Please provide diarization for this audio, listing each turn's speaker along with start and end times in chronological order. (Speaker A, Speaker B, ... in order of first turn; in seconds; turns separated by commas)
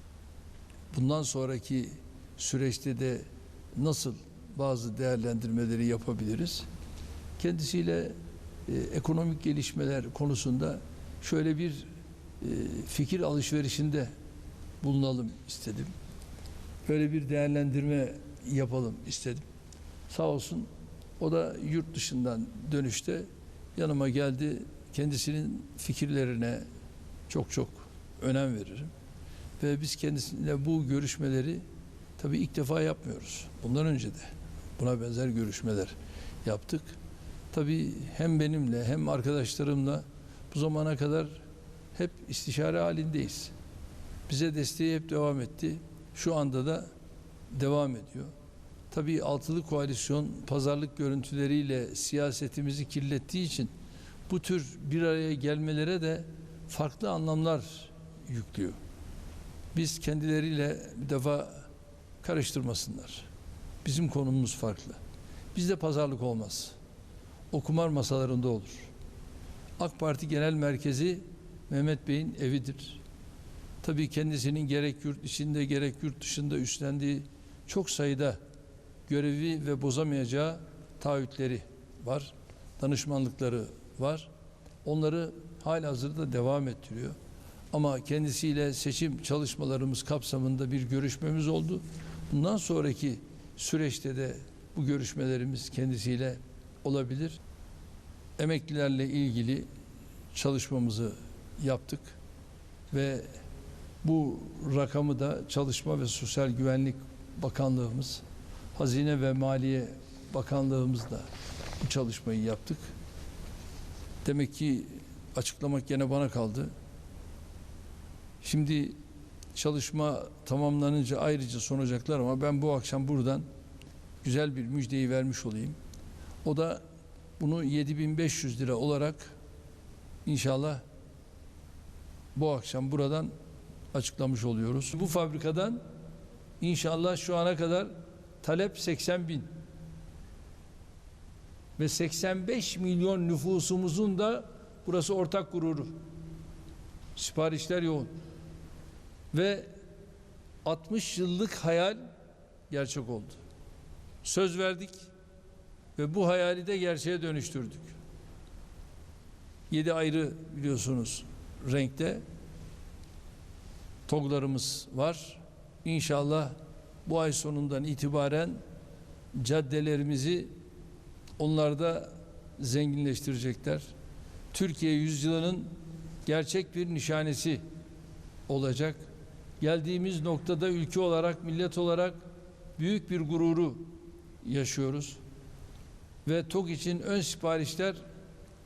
Speaker A: 0.9-6.7, Speaker A: 7.4-8.2, Speaker A: 8.7-11.9, Speaker A: 12.4-14.1, Speaker A: 14.8-15.9, Speaker A: 16.9-19.4, Speaker A: 20.1-20.7, Speaker A: 21.2-26.6, Speaker A: 27.3-28.9, Speaker A: 29.6-31.6, Speaker A: 32.2-37.0, Speaker A: 37.5-41.4, Speaker A: 41.9-43.5, Speaker A: 44.3-46.9, Speaker A: 47.5-48.3, Speaker A: 48.9-53.7, Speaker A: 54.3-58.8, Speaker A: 59.7-61.7, Speaker A: 62.2-63.3, Speaker A: 63.8-65.0, Speaker A: 65.5-66.7, Speaker A: 67.5-68.9, Speaker A: 69.8-73.0, Speaker A: 73.8-78.4, Speaker A: 79.1-84.3, Speaker A: 84.8-87.1, Speaker A: 87.7-97.4, Speaker A: 98.4-99.7, Speaker A: 100.3-102.2, Speaker A: 102.9-103.3, Speaker A: 104.0-108.2, Speaker A: 108.8-111.2, Speaker A: 111.8-112.8, Speaker A: 114.2-116.7, Speaker A: 118.4-119.0, Speaker A: 119.5-123.5, Speaker A: 124.2-125.8, Speaker A: 126.4-126.8, Speaker A: 127.4-129.3, Speaker A: 130.2-130.8, Speaker A: 132.3-133.3, Speaker A: 133.9-135.8, Speaker A: 136.6-139.5, Speaker A: 141.8-145.9, Speaker A: 147.2-148.1, Speaker A: 149.3-149.7, Speaker A: 150.6-152.0, Speaker A: 152.7-153.4, Speaker A: 154.2-155.1, Speaker A: 156.0-157.9, Speaker A: 159.7-162.2, Speaker A: 164.1-168.6, Speaker A: 169.3-170.5, Speaker A: 171.4-173.9, Speaker A: 174.5-175.7, Speaker A: 176.2-177.6, Speaker A: 178.5-179.0, Speaker A: 179.6-182.2, Speaker A: 182.8-183.9, Speaker A: 184.4-185.2, Speaker A: 186.2-188.0